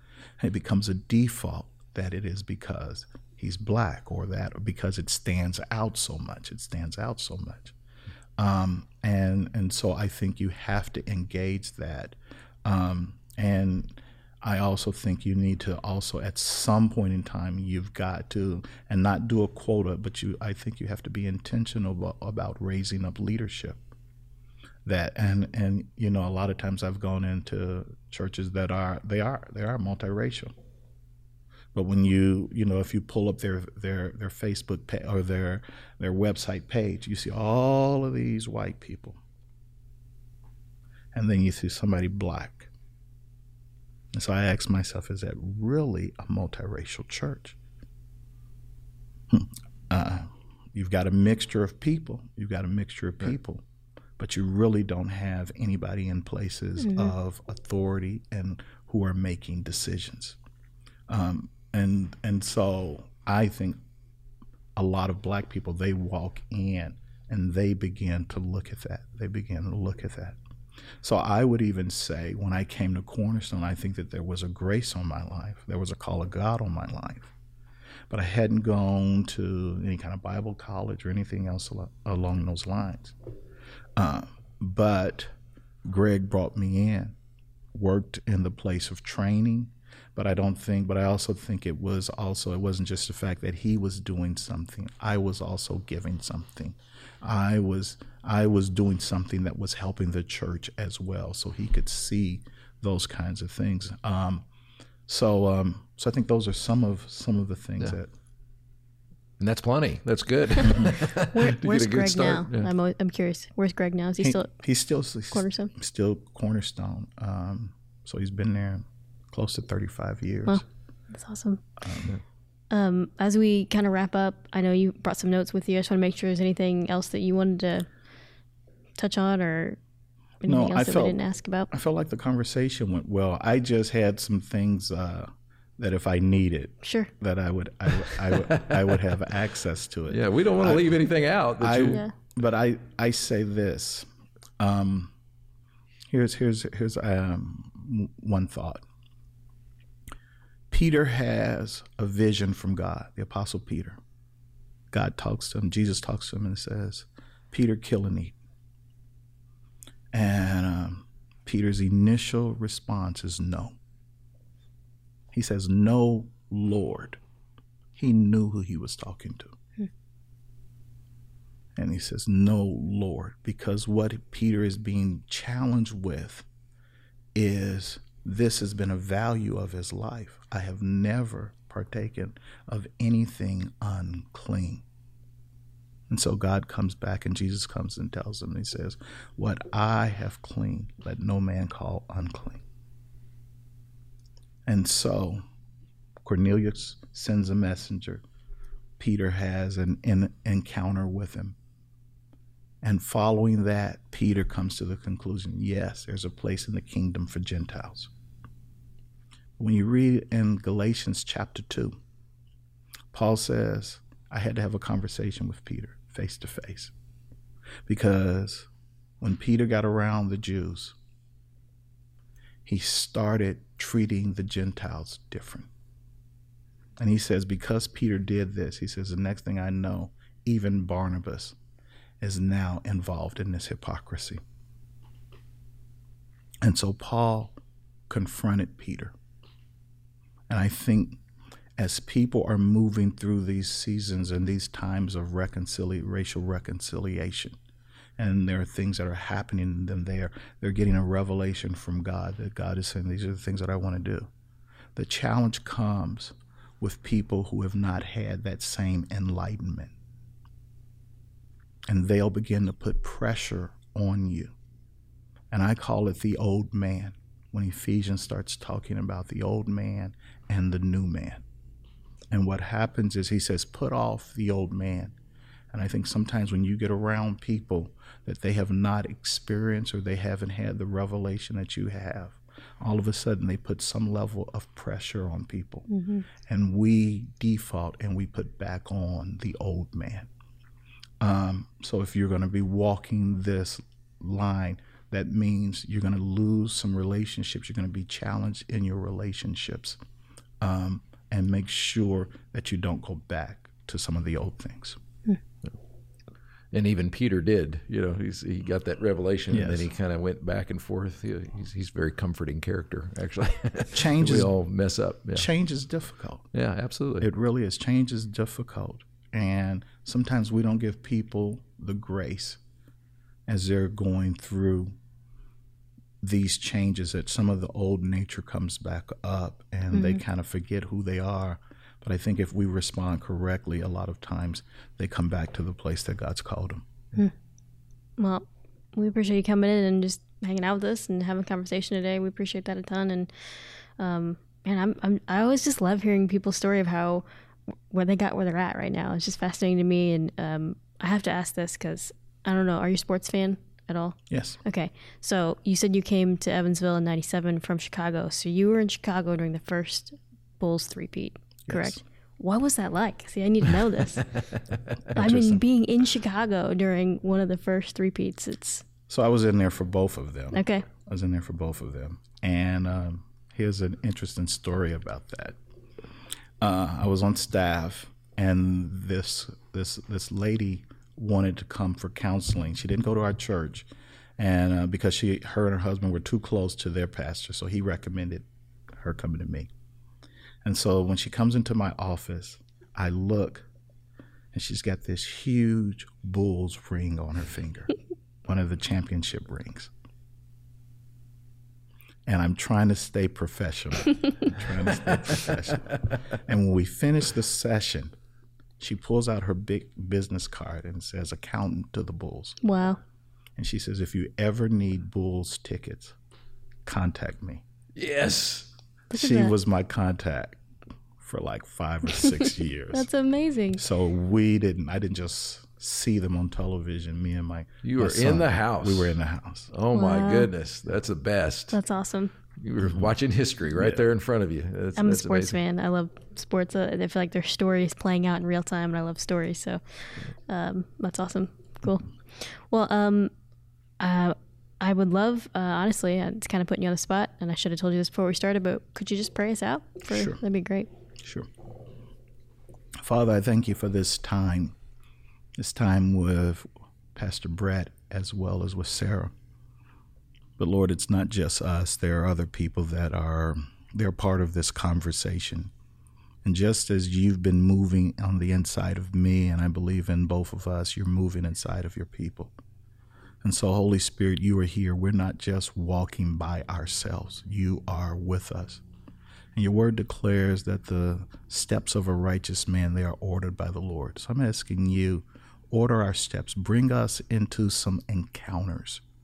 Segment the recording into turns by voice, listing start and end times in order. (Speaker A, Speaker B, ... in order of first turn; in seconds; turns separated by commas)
Speaker A: 0.4-7.7, Speaker A: 8.4-23.8, Speaker A: 24.8-30.5, Speaker A: 31.7-39.2, Speaker A: 41.1-42.7, Speaker A: 44.1-47.6, Speaker A: 49.3-53.6, Speaker A: 54.2-60.4, Speaker B: 56.8-57.1, Speaker A: 61.1-63.8, Speaker A: 64.8-70.4, Speaker A: 71.0-77.3, Speaker A: 78.1-83.1, Speaker A: 84.0-85.3, Speaker A: 85.8-87.2, Speaker A: 87.7-104.5, Speaker A: 105.1-108.1, Speaker C: 109.4-112.7, Speaker B: 110.6-114.5, Speaker A: 110.6-110.9, Speaker A: 114.2-120.6, Speaker B: 115.3-115.7, Speaker B: 120.5-121.6, Speaker A: 121.8-122.2, Speaker B: 122.7-127.9, Speaker B: 129.0-129.8, Speaker B: 130.4-131.7, Speaker A: 130.4-141.0, Speaker B: 136.8-137.1, Speaker C: 138.0-139.1, Speaker C: 140.1-142.0, Speaker A: 141.6-144.1, Speaker A: 144.6-145.1, Speaker A: 146.1-148.8, Speaker A: 150.7-154.0, Speaker A: 154.9-158.3, Speaker A: 160.1-163.8, Speaker A: 165.3-167.2, Speaker A: 167.9-169.6, Speaker A: 171.8-176.4, Speaker A: 177.3-184.8, Speaker A: 186.1-192.6, Speaker A: 194.7-195.4, Speaker A: 196.2-198.2, Speaker A: 199.0-201.6, Speaker A: 202.8-208.1, Speaker A: 209.6-212.0, Speaker A: 213.1-216.9, Speaker A: 217.8-218.7, Speaker A: 219.2-220.9, Speaker A: 222.6-225.7, Speaker A: 227.0-231.6, Speaker A: 232.2-234.4, Speaker A: 236.6-237.6, Speaker A: 238.1-239.1, Speaker A: 240.5-241.2, Speaker A: 241.8-247.6, Speaker A: 248.2-254.3, Speaker A: 254.9-259.9, Speaker A: 261.9-264.5, Speaker A: 265.5-271.4, Speaker A: 272.3-275.2, Speaker A: 275.7-285.9, Speaker B: 285.9-286.2, Speaker A: 286.4-290.3, Speaker A: 291.2-300.0, Speaker A: 300.6-305.0, Speaker C: 306.7-315.5, Speaker A: 309.5-309.9, Speaker A: 313.9-314.5, Speaker A: 315.3-316.5, Speaker C: 316.5-317.3, Speaker A: 317.2-322.6, Speaker A: 323.5-325.0, Speaker A: 326.2-336.9, Speaker B: 329.9-330.2, Speaker B: 338.2-347.2, Speaker B: 347.9-364.3, Speaker A: 354.3-354.6, Speaker A: 361.7-362.0, Speaker A: 365.1-365.6, Speaker B: 365.1-368.8, Speaker A: 369.1-375.6, Speaker B: 370.5-370.9, Speaker A: 376.6-389.7, Speaker A: 390.6-393.7, Speaker A: 394.5-397.9, Speaker A: 398.4-399.9, Speaker A: 402.2-408.1, Speaker A: 408.8-412.6, Speaker B: 412.6-413.0, Speaker A: 413.6-416.1, Speaker A: 416.9-417.6, Speaker C: 417.9-418.7, Speaker B: 419.1-419.5, Speaker A: 419.1-420.6, Speaker A: 421.2-423.1, Speaker B: 422.9-423.8, Speaker A: 423.7-429.7, Speaker C: 427.8-429.2, Speaker C: 429.7-431.8, Speaker B: 429.9-430.5, Speaker B: 431.7-432.3, Speaker C: 432.6-435.6, Speaker A: 432.8-433.1, Speaker A: 433.7-434.1, Speaker B: 435.0-443.3, Speaker B: 444.0-450.9, Speaker A: 450.1-450.4, Speaker A: 451.2-451.5, Speaker A: 453.0-454.7, Speaker A: 455.6-459.3, Speaker A: 460.6-465.7, Speaker A: 466.4-472.5, Speaker A: 473.4-478.8, Speaker A: 479.5-489.0